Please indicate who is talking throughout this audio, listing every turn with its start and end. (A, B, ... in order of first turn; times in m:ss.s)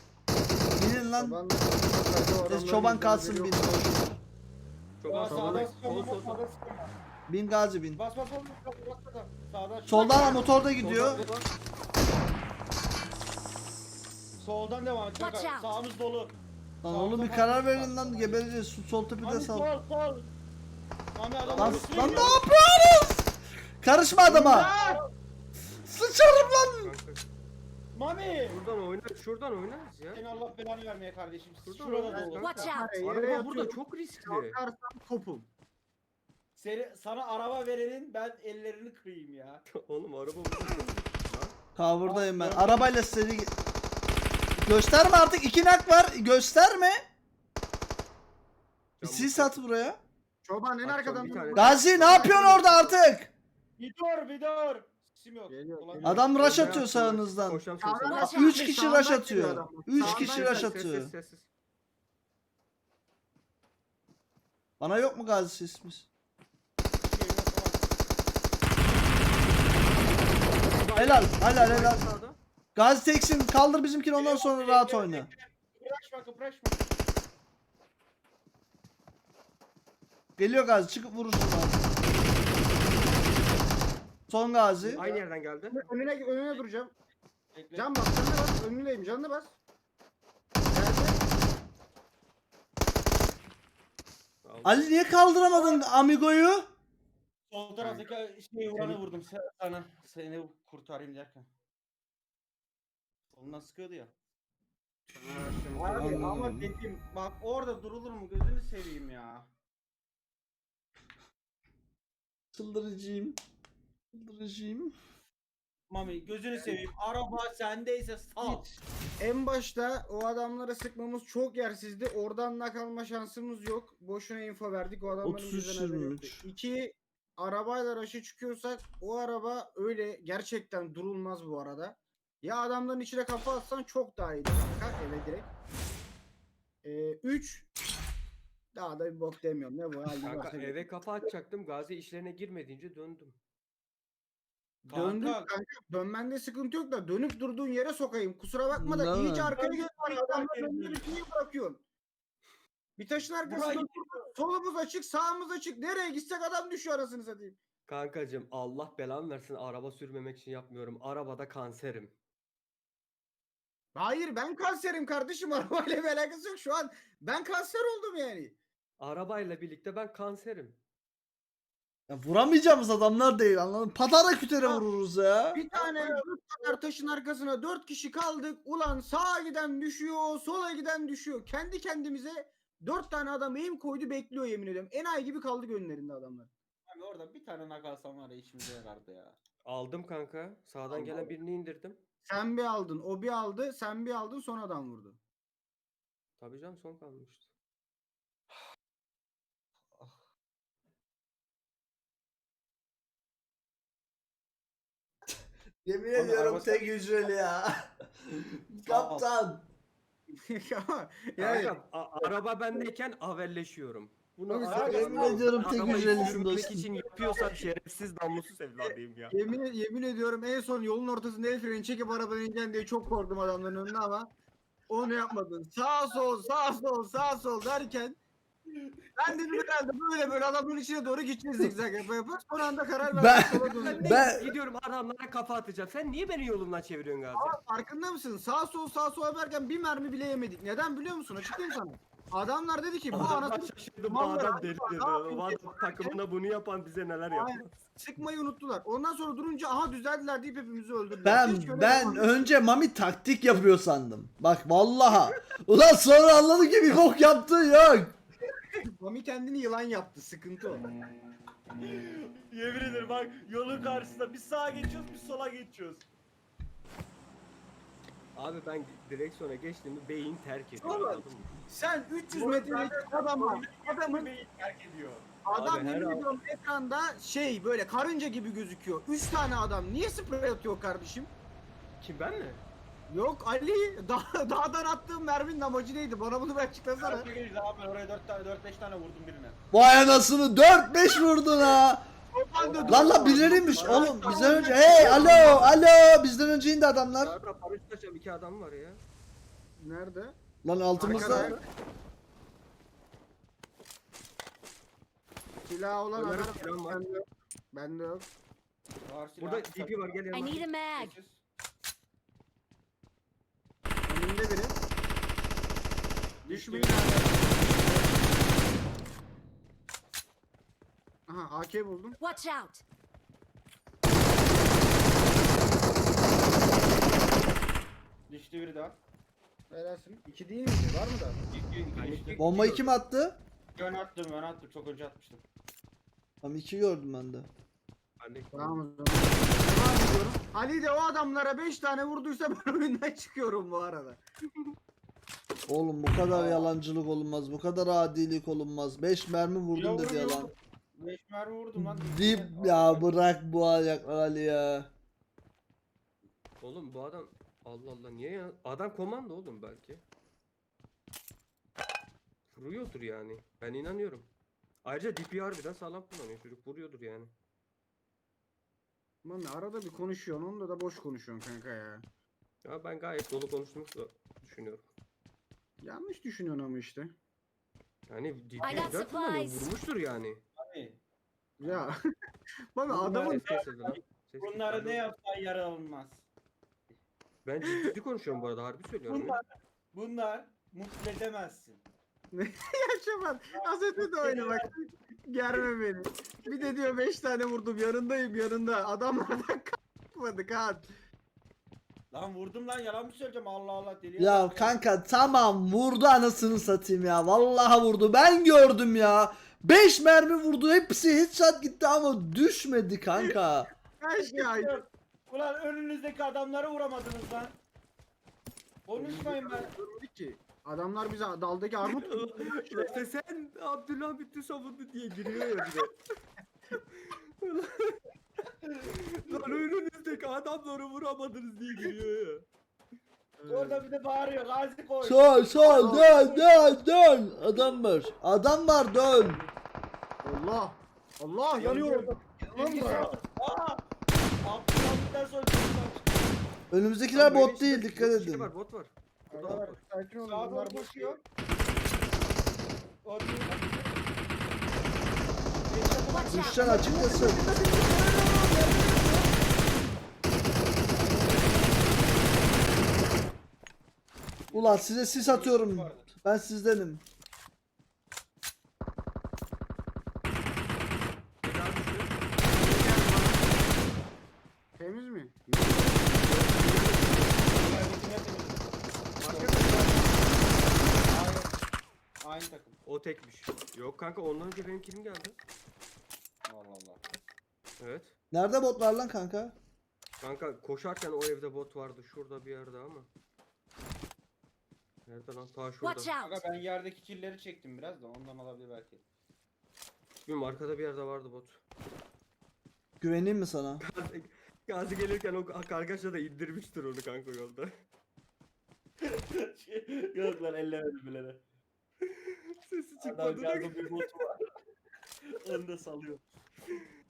0:00.7-0:01.4 A
0:01.0-0:03.7 B
0:02.4-0:04.2 A
0:05.0-0:06.4 C
0:05.0-0:06.9 D
0:05.2-0:05.7 B
0:07.3-0:08.0 A
0:08.0-0:11.4 D
0:09.8-0:11.2 A
0:10.7-0:11.4 C
0:14.4-0:18.4 D
0:15.1-0:15.7 E
0:16.8-0:19.7 A
0:19.2-0:20.3 D
0:21.1-0:22.4 D
0:21.5-0:22.2 C
0:21.6-0:24.7 A
0:24.2-0:25.0 D
0:24.3-0:25.0 B
0:25.8-0:26.9 A
0:26.8-0:27.3 C
0:27.9-0:28.6 D
0:28.5-0:30.2 C
0:30.1-0:32.7 D
0:31.6-0:34.6 C
0:32.1-0:35.5 B
0:32.4-0:33.0 E
0:36.6-0:39.6 D
0:39.7-0:41.5 C
0:41.8-0:43.5 A
0:42.0-0:42.9 D
0:44.6-0:47.0 A
0:49.0-0:49.6 C
0:49.0-0:50.0 A
0:50.4-0:53.0 B
0:50.8-0:52.6 C
0:51.5-0:53.3 A
0:53.8-0:56.9 D
0:55.5-0:56.3 B
0:56.0-1:01.1 A
0:56.4-0:58.5 C
0:57.8-1:00.7 B
1:00.0-1:01.5 C
1:04.8-1:06.1 A
1:07.0-1:07.8 D
1:10.7-1:12.4 C
1:10.9-1:12.0 A
1:12.7-1:15.3 A
1:14.2-1:16.8 D
1:20.4-1:21.8 A
1:24.3-1:25.0 A
1:25.0-1:25.8 C
1:25.0-1:25.2 D
1:25.7-1:26.9 B
1:27.5-1:27.9 D
1:27.7-1:29.6 B
1:30.7-1:31.2 B
1:34.4-1:34.9 C
1:34.6-1:36.6 A
1:37.5-1:41.5 D
1:37.8-1:38.1 B
1:43.3-1:44.1 D
1:45.1-1:46.4 B
1:45.7-1:49.5 D
1:46.0-1:46.7 A
1:52.5-1:53.4 A
1:54.1-1:54.9 A
1:55.9-1:58.6 D
1:58.4-2:15.5 B
2:05.2-2:06.4 A
2:16.8-2:17.7 B
2:18.7-2:20.8 B
2:20.2-2:23.4 C
2:24.8-2:25.5 D
2:24.9-2:31.8 B
2:28.7-2:29.5 A
2:29.6-2:31.0 D
2:33.0-2:37.6 B
2:33.4-2:34.3 D
2:37.8-2:42.1 C
2:43.9-2:48.6 B
2:49.0-2:50.8 C
2:52.1-2:55.6 A
2:55.5-3:06.5 B
2:55.7-2:56.2 D
3:06.9-3:09.4 D
3:09.6-3:12.0 C
3:10.9-3:11.4 D
3:12.2-3:15.2 B
3:16.4-3:17.5 C
3:25.8-3:27.9 A
3:26.1-3:26.9 D
3:28.7-3:29.6 A
3:28.8-3:29.2 D
3:30.5-3:31.7 B
3:31.4-3:39.4 C
3:34.5-3:36.4 B
3:34.6-3:36.4 D
3:34.8-3:36.9 A
3:37.0-3:37.6 D
3:39.3-3:44.3 B
3:44.9-3:48.2 B
3:49.2-3:54.2 B
3:53.1-3:54.5 A
3:53.6-3:57.6 C
3:57.3-4:06.2 B
4:03.1-4:07.7 C
4:07.3-4:12.5 B
4:11.2-4:18.2 A
4:19.0-4:20.8 B
4:21.8-4:26.0 D
4:28.3-4:31.5 C
4:30.8-4:31.1 D
4:31.7-4:34.3 B
4:32.3-4:35.4 D
4:35.4-4:41.3 B
4:35.5-4:36.3 C
4:42.0-4:42.6 C
4:43.1-4:47.3 B
4:47.0-4:49.6 D
4:49.7-4:52.1 A
4:52.3-4:55.6 B
4:52.6-4:53.1 C
4:52.6-4:55.6 D
4:52.9-4:57.3 A
4:53.7-4:55.6 C
4:57.2-4:59.0 C
4:59.8-5:00.4 B
5:00.6-5:01.5 A
5:01.0-5:01.6 B
5:01.0-5:01.6 C
5:05.6-5:08.2 B
5:06.1-5:07.0 C
5:09.0-5:11.4 D
5:09.4-5:10.6 C
5:10.3-5:11.1 E
5:14.1-5:14.8 B
5:16.4-5:18.2 B
5:16.5-5:17.1 D
5:21.3-5:22.2 B
5:22.2-5:22.8 E
5:28.3-5:29.0 D
5:29.7-5:31.4 B
5:31.5-5:32.9 D
5:31.9-5:32.6 C
5:32.4-5:33.4 A
5:33.8-5:35.4 D
5:36.4-5:37.5 A
5:38.2-5:38.8 C
5:38.5-5:44.2 B
5:45.7-5:50.5 A
5:46.3-5:46.7 D
5:49.7-5:53.1 D
5:51.8-5:54.9 A
5:56.6-6:00.0 C
6:02.5-6:04.3 C
6:04.8-6:07.3 C
6:09.2-6:12.0 B
6:12.6-6:14.9 C
6:15.8-6:17.1 B
6:18.1-6:20.4 C
6:18.6-6:19.7 E
6:20.6-6:21.0 D
6:21.6-6:22.0 B
6:21.6-6:21.9 D
6:22.7-6:23.4 B
6:22.9-6:26.2 D
6:23.2-6:25.0 C
6:27.4-6:29.4 C
6:29.1-6:29.4 D
6:29.9-6:31.8 D
6:32.3-6:40.9 B
6:33.5-6:34.7 D
6:42.1-6:44.8 D
6:44.2-6:53.7 A
6:54.0-6:54.8 B
6:54.2-6:57.6 D
6:58.8-6:59.7 D
6:59.0-7:02.4 B
7:01.8-7:05.9 C
7:02.5-7:03.0 D
7:06.9-7:08.0 C
7:08.8-7:12.4 C
7:09.3-7:09.6 D
7:13.4-7:13.8 B
7:13.5-7:16.6 D
7:15.0-7:19.4 A
7:15.6-7:16.1 B
7:20.2-7:23.1 B
7:21.6-7:23.8 D
7:22.7-7:23.1 C
7:24.4-7:26.4 D
7:26.7-7:28.5 A
7:27.1-7:29.8 C
7:29.3-7:31.2 B
7:30.2-7:31.2 D
7:33.0-7:33.8 D
7:35.6-7:37.4 D
7:36.1-7:37.0 E
7:36.3-7:37.4 A
7:36.6-7:39.2 B
7:40.9-7:42.1 D
7:44.5-7:46.0 D
7:44.5-7:47.0 A
7:51.4-7:52.2 C
7:52.5-7:53.7 B
7:54.8-7:56.1 B
7:56.1-7:57.5 C
7:57.5-7:58.8 D
7:59.2-8:00.4 C
7:59.3-8:00.2 D
8:01.0-8:01.5 D
8:02.2-8:02.8 D
8:02.8-8:05.4 C
8:06.4-8:07.0 D
8:07.8-8:08.1 C
8:08.3-8:09.6 A
8:10.2-8:13.1 C
8:15.0-8:16.1 C
8:15.8-8:16.3 E
8:16.2-8:19.0 D
8:20.2-8:21.6 C
8:23.0-8:23.8 A
8:23.8-8:27.7 C
8:29.0-8:31.4 D
8:32.0-8:34.1 C
8:33.0-8:34.5 D
8:35.2-8:36.2 D